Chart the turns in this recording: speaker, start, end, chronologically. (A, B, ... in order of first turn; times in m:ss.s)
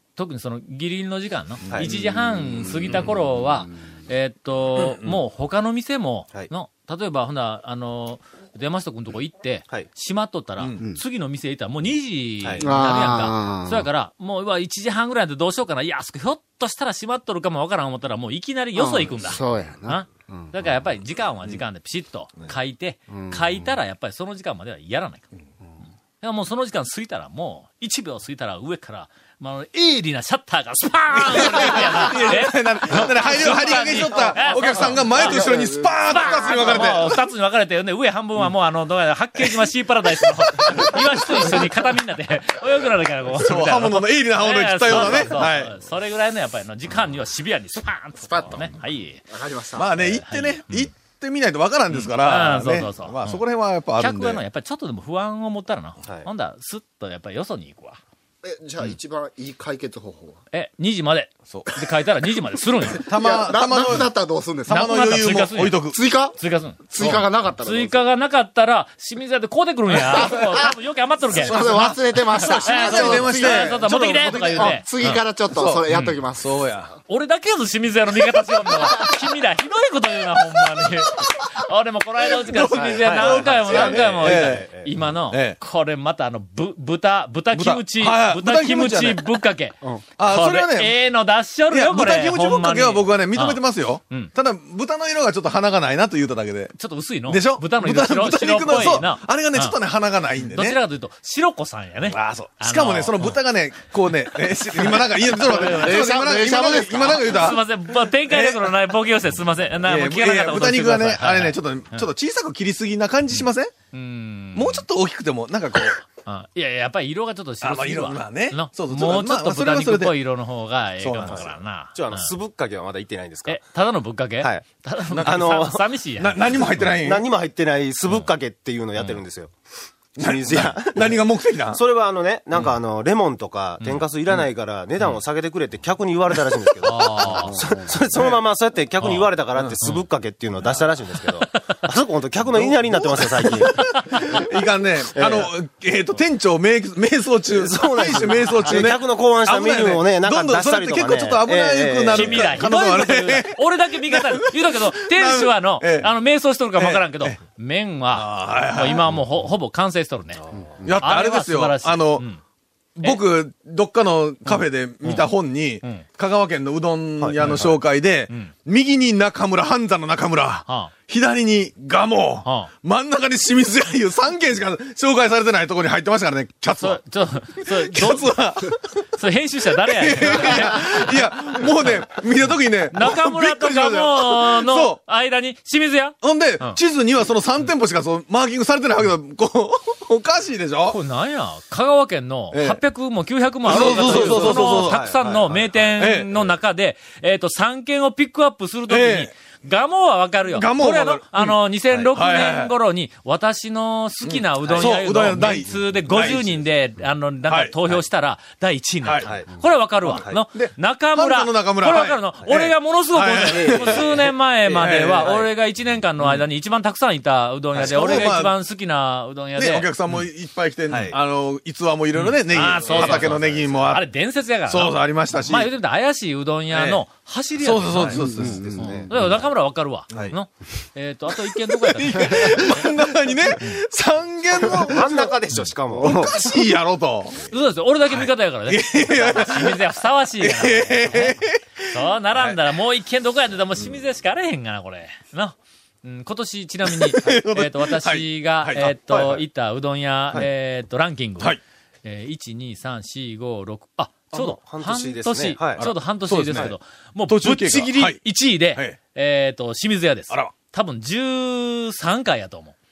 0:00.2-0:25.3 A
0:01.7-0:03.1 B
0:04.8-0:05.2 B
0:12.6-0:13.9 C
0:18.7-0:20.5 C
0:23.1-0:23.6 C
0:26.2-0:49.2 A
0:31.3-0:37.2 B
0:34.7-0:36.9 C
0:40.2-0:41.8 B
0:43.3-0:45.8 B
0:48.2-0:48.7 C
0:49.3-0:50.0 C
0:49.8-0:54.4 B
0:49.9-0:50.9 A
0:51.9-0:53.4 A
0:54.0-0:58.0 A
0:58.4-1:00.4 C
1:00.5-1:03.0 A
1:01.5-1:01.8 B
1:03.0-1:04.1 B
1:03.0-1:05.3 C
1:04.7-1:06.0 B
1:04.7-1:15.2 A
1:05.8-1:06.4 C
1:06.9-1:08.0 C
1:09.9-1:10.7 C
1:11.3-1:16.6 C
1:11.3-1:14.8 B
1:15.6-1:15.8 B
1:15.9-1:16.2 A
1:16.4-1:16.9 B
1:17.1-1:34.3 A
1:22.3-1:24.7 B
1:22.8-1:24.9 D
1:25.3-1:25.6 B
1:27.5-1:29.3 B
1:30.2-1:31.0 B
1:31.7-1:36.8 B
1:36.8-1:39.8 A
1:37.3-1:40.8 B
1:40.4-1:43.4 A
1:42.0-1:47.6 B
1:45.4-1:46.1 A
1:45.6-1:47.2 C
1:47.2-1:52.1 A
1:48.2-1:48.7 B
1:49.8-1:53.7 B
1:53.3-1:54.8 A
1:54.5-1:56.0 B
1:56.2-2:02.3 A
1:57.6-2:00.2 B
2:01.0-2:01.6 B
2:01.2-2:03.6 D
2:03.4-2:06.8 A
2:04.4-2:05.8 D
2:06.2-2:07.2 B
2:06.8-2:09.5 D
2:10.2-2:11.8 B
2:10.2-2:24.4 D
2:13.8-2:14.0 A
2:16.8-2:17.6 A
2:18.1-2:18.4 B
2:19.0-2:19.3 A
2:21.4-2:21.8 A
2:22.5-2:36.1 B
2:23.7-2:24.2 A
2:25.1-2:25.5 D
2:27.5-2:32.6 D
2:32.1-2:40.4 A
2:36.7-2:37.4 B
2:38.1-2:39.2 B
2:40.5-2:41.0 D
2:40.8-2:42.3 B
2:41.0-2:42.4 A
2:43.0-2:57.0 B
2:44.5-2:45.3 A
2:47.2-2:47.8 D
2:48.3-2:48.5 A
2:50.7-2:50.9 A
2:52.4-2:52.7 A
2:56.8-2:58.3 A
2:57.5-2:59.1 B
2:59.2-3:01.9 A
2:59.7-3:05.0 B
3:02.9-3:06.8 A
3:06.2-3:11.0 B
3:10.9-3:39.9 A
3:12.5-3:12.8 B
3:13.6-3:15.1 B
3:13.7-3:15.9 D
3:16.0-3:16.5 B
3:18.9-3:19.4 B
3:20.5-3:21.6 B
3:22.1-3:22.7 B
3:24.2-3:26.6 B
3:27.5-3:27.8 B
3:29.0-3:29.3 B
3:29.2-3:29.6 D
3:30.0-3:35.4 B
3:30.2-3:30.4 D
3:33.5-3:34.3 D
3:35.2-3:35.5 D
3:37.7-3:38.6 B
3:39.5-3:44.1 B
3:40.9-3:41.2 D
3:42.1-3:48.2 A
3:42.9-3:43.3 D
3:44.7-3:45.7 B
3:46.7-3:47.0 B
3:47.6-3:48.8 B
3:47.9-3:49.4 D
3:48.2-3:49.1 C
3:48.8-3:52.9 A
3:51.5-3:57.5 B
3:54.7-3:56.5 D
3:57.5-4:01.4 A
3:58.1-3:59.8 B
4:00.4-4:02.6 B
4:01.9-4:22.8 A
4:06.9-4:09.3 B
4:09.1-4:09.4 D
4:14.3-4:15.9 D
4:15.8-4:16.7 B
4:17.3-4:19.0 B